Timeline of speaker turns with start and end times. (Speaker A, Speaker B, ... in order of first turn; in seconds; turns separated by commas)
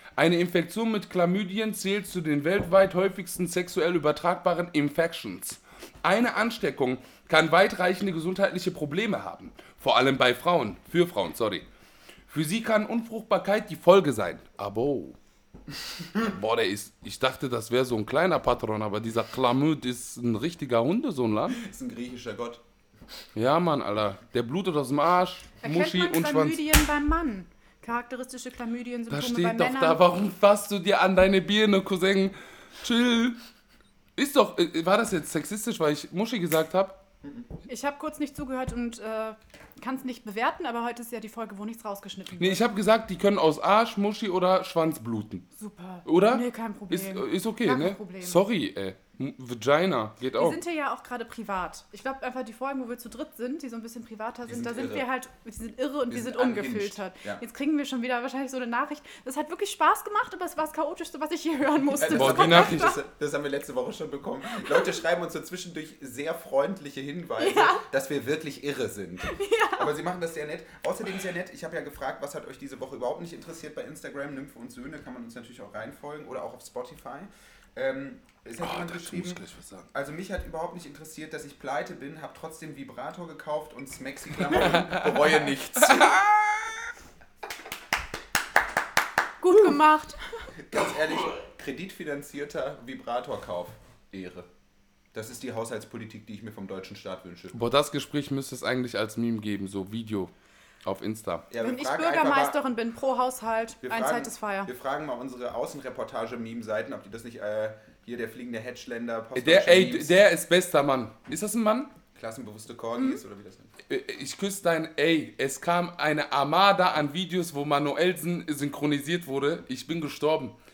Speaker A: 0.2-11.6, Speaker A: 12.3-15.2, Speaker A: 16.2-21.6, Speaker B: 21.5-22.6, Speaker A: 23.4-26.6, Speaker C: 25.6-30.0, Speaker A: 29.1-33.4, Speaker A: 34.2-37.0, Speaker C: 37.7-42.6, Speaker A: 42.4-45.5, Speaker C: 45.6-48.4, Speaker A: 46.1-50.6, Speaker C: 50.4-63.0, Speaker B: 54.5-55.1, Speaker B: 56.1-57.4, Speaker B: 62.0-79.4, Speaker A: 62.1-63.0, Speaker C: 67.4-67.8, Speaker C: 69.2-69.9, Speaker A: 78.6-79.9, Speaker B: 79.9-86.2, Speaker A: 84.5-86.6, Speaker C: 89.4-90.5, Speaker B: 90.6-94.5, Speaker B: 95.1-97.6, Speaker A: 97.5-100.3, Speaker A: 100.8-101.5, Speaker B: 101.5-102.6, Speaker C: 101.6-104.7, Speaker B: 103.8-110.2, Speaker A: 109.4-111.9, Speaker B: 112.1-113.7, Speaker A: 113.9-120.5